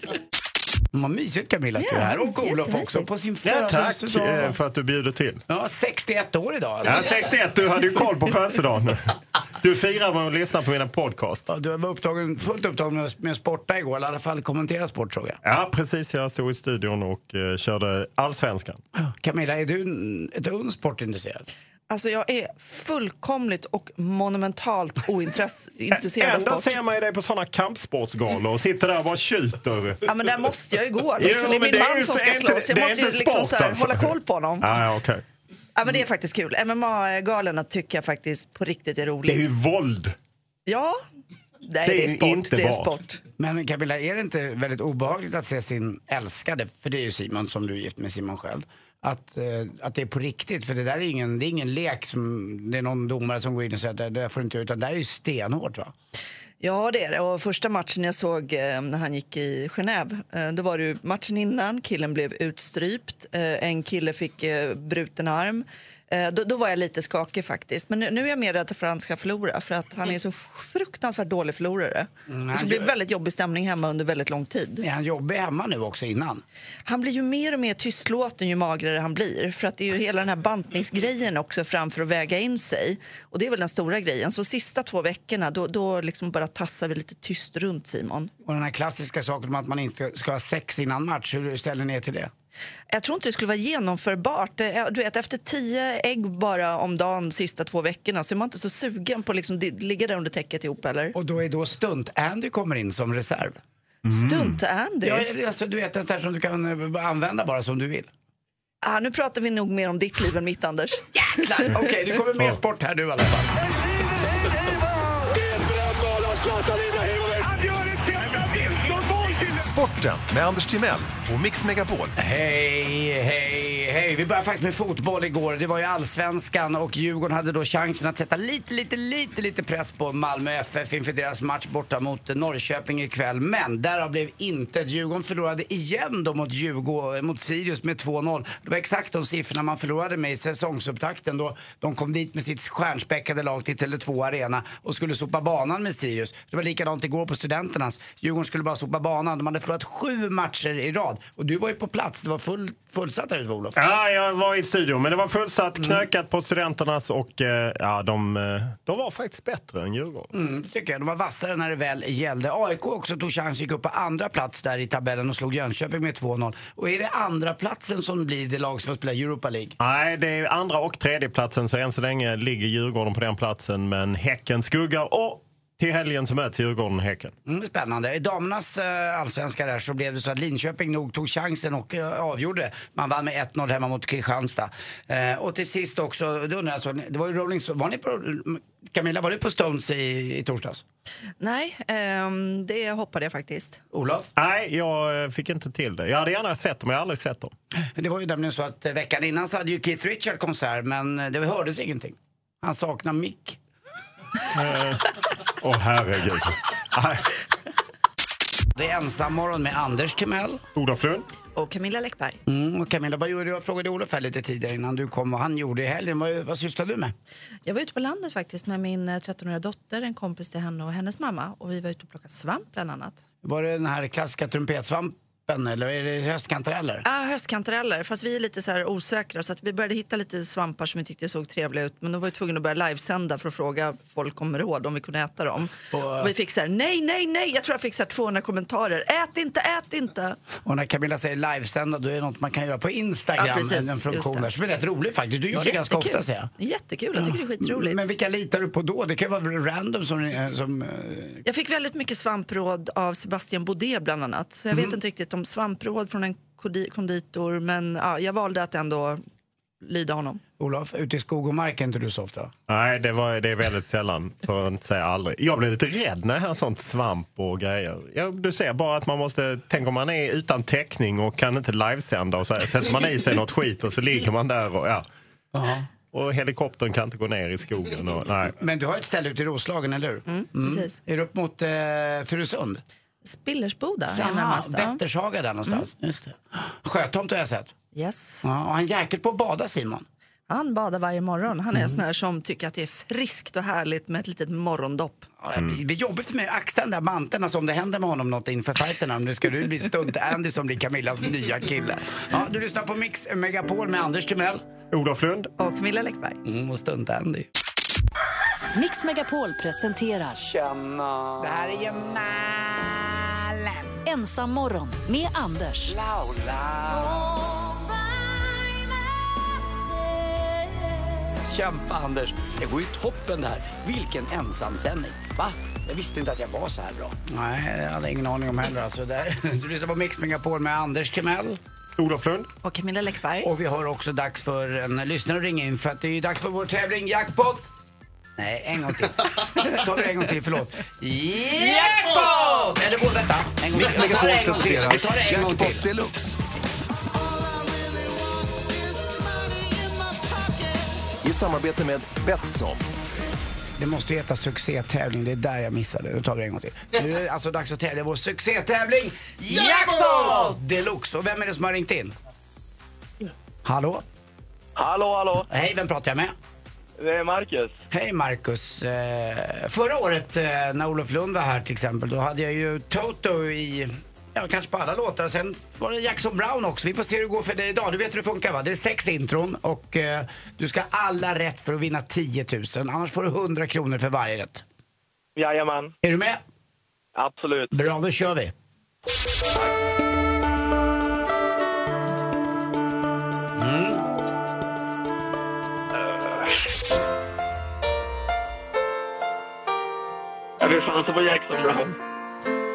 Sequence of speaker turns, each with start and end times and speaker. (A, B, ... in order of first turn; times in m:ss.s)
0:00.9-0:04.6 A
0:01.8-0:03.1 B
0:03.4-0:05.4 C
0:05.5-0:07.2 A
0:06.8-0:11.5 C
0:11.5-0:15.4 A
0:15.4-0:18.8 C
0:19.0-0:21.5 A
0:21.9-0:26.7 B
0:26.0-0:30.0 C
0:30.0-0:34.6 B
0:31.2-0:35.2 C
0:35.7-0:39.5 B
0:39.2-0:40.1 C
0:40.7-0:41.0 B
0:41.6-0:43.2 B
0:41.8-0:42.9 C
0:43.4-0:55.9 A
0:56.6-1:14.8 B
1:12.3-1:12.9 A
1:14.8-1:16.4 A
1:16.8-1:28.3 B
1:28.4-1:32.3 A
1:32.9-1:41.1 B
1:41.1-1:43.6 A
1:44.1-1:44.6 C
1:44.1-1:45.3 B
1:45.0-1:48.1 A
1:48.8-1:51.7 B
1:51.1-1:53.5 A
1:56.0-1:56.7 A
1:59.5-2:02.1 D
2:02.2-2:33.8 A
2:33.8-2:40.3 C
2:35.8-2:36.0 A
2:40.3-2:49.8 A
2:49.8-2:57.3 C
2:57.4-3:10.8 A
3:11.4-3:13.8 B
3:13.9-3:14.3 A
3:14.4-3:17.5 C
3:17.9-3:23.6 A
3:24.5-3:25.0 C
3:25.6-3:27.2 C
3:28.8-3:30.6 A
3:30.7-3:31.2 C
3:31.5-3:32.4 B
3:32.4-3:37.1 A
3:37.6-3:43.2 B
3:43.4-3:47.0 A
3:47.0-4:00.4 B
3:55.9-3:56.3 A
4:00.6-4:06.5 A
4:03.4-4:04.5 B
4:05.5-4:08.0 B
4:07.1-4:11.4 A
4:11.4-4:19.2 B
4:14.7-4:15.0 A
4:19.8-4:20.4 B
4:20.6-4:22.5 A
4:22.7-4:35.0 C
4:35.5-4:35.9 A
4:36.1-4:38.5 C
4:38.6-4:42.8 A
4:40.3-4:40.9 B
4:43.2-4:45.0 B
4:44.1-4:47.7 A
4:47.9-4:48.4 B
4:48.4-4:50.0 A
4:50.5-4:55.3 B
4:51.7-4:52.0 A
4:55.4-5:04.6 A
5:04.9-5:05.5 C
5:05.6-5:06.4 B
5:06.4-5:07.5 A
5:08.7-5:10.4 E
5:10.4-5:13.9 A
5:14.0-5:15.9 E
5:15.8-5:17.4 A
5:21.4-5:31.6 A
5:32.0-5:32.5 C
5:32.6-5:33.5 B
5:33.4-5:37.7 A
5:38.4-5:45.9 A
5:43.7-5:46.4 D
5:51.2-5:52.8 D
5:53.8-6:02.1 A
6:03.6-6:04.0 A
6:04.8-6:05.5 F
6:05.5-6:06.3 A
6:07.0-6:07.8 F
6:07.9-6:24.6 A
6:25.4-6:25.9 F
6:26.0-6:26.4 A
6:27.2-6:27.8 F
6:27.7-6:28.5 A
6:33.6-6:34.0 A
6:36.1-6:36.5 F
6:40.6-6:42.0 F